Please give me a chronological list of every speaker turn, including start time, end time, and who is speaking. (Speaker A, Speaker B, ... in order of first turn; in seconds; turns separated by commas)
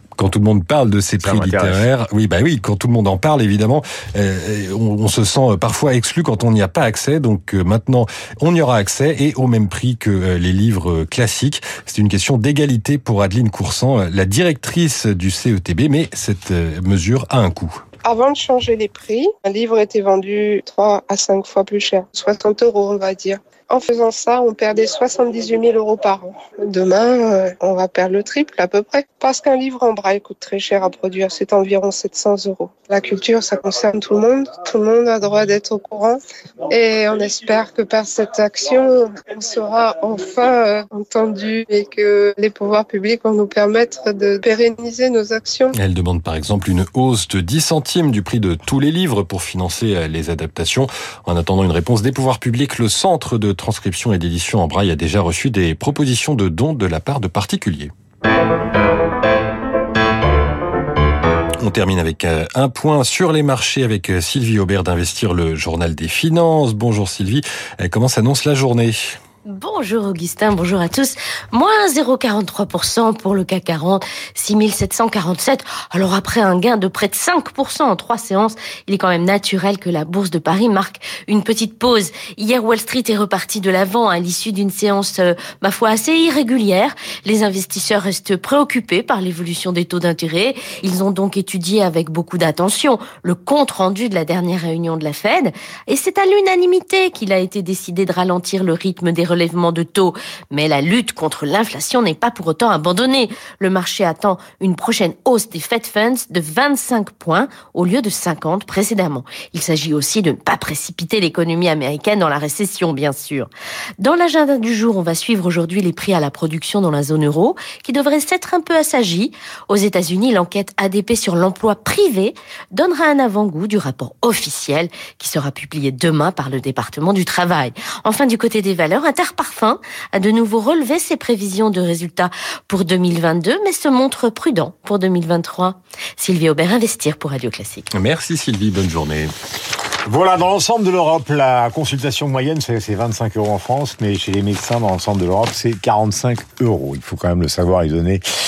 Speaker A: 0.2-17.7, Speaker B: 1.2-1.9, Speaker C: 18.0-45.7, Speaker A: 45.7-57.9, Speaker A: 61.6-69.2, Speaker D: 69.5-137.9, Speaker A: 137.9-139.3, Speaker B: 140.1-148.2